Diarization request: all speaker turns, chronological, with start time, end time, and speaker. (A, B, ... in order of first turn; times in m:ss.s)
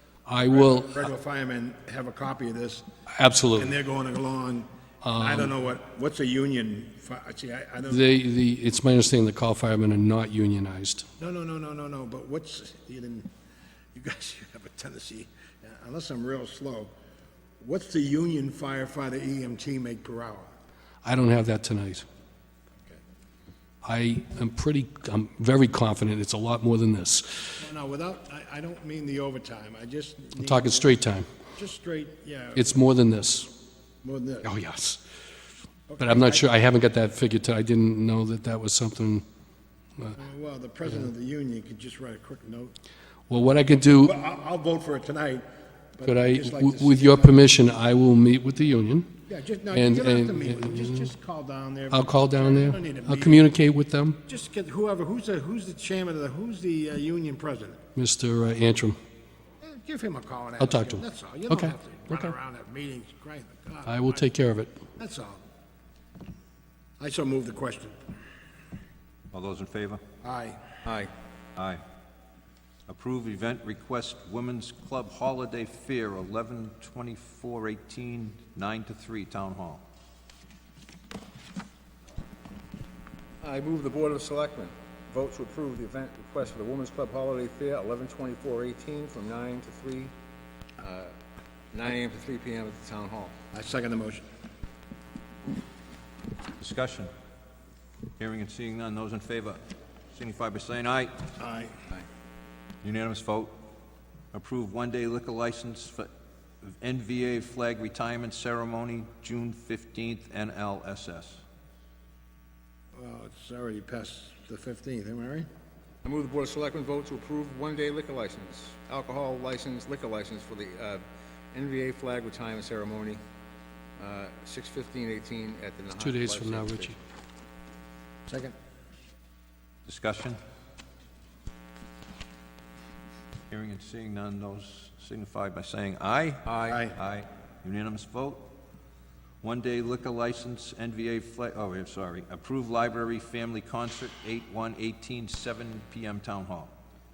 0:00.2-0:01.1 A
0:00.4-0:02.8 B
0:03.1-0:03.7 A
0:03.5-0:08.1 B
0:05.0-0:05.5 A
0:07.9-0:11.0 A
0:11.2-0:13.3 B
0:13.9-0:16.9 B
0:17.6-0:20.5 B
0:21.0-0:22.0 A
0:23.8-0:27.6 A
0:27.6-0:31.0 B
0:30.4-0:31.3 A
0:31.5-0:32.7 B
0:32.6-0:33.5 A
0:34.0-0:34.5 B
0:34.4-0:35.0 A
0:35.9-0:36.5 B
0:36.0-0:39.2 A
0:40.2-0:42.7 B
0:43.3-0:44.2 A
0:44.0-0:45.4 B
0:46.0-0:47.5 B
0:46.0-0:49.1 A
0:49.3-0:53.5 B
0:49.7-0:51.1 A
0:51.9-0:54.2 A
0:54.2-0:57.8 B
0:57.9-0:59.0 A
0:59.6-1:04.2 B
1:00.6-1:02.3 A
1:03.8-1:04.8 A
1:05.0-1:05.4 B
1:07.0-1:08.0 B
1:09.3-1:10.0 C
1:10.2-1:10.7 B
1:10.8-1:11.1 D
1:11.6-1:11.8 C
1:12.9-1:19.8 C
1:23.4-1:30.1 D
1:30.8-1:31.1 D
1:31.7-1:33.3 D
1:33.5-1:34.2 B
1:36.6-1:37.1 C
1:38.2-1:39.6 C
1:40.1-1:41.2 C
1:41.4-1:41.7 B
1:42.8-1:43.6 C
1:44.3-1:46.1 C
1:46.6-1:51.4 C
1:52.9-1:55.5 B
1:56.0-2:03.2 D
2:04.0-2:07.0 D
2:06.0-2:07.0 A
2:08.3-2:08.5 B
2:09.8-2:10.4 C
2:13.5-2:18.5 C
2:16.5-2:16.9 D
2:16.7-2:17.0 B
2:19.4-2:26.7 C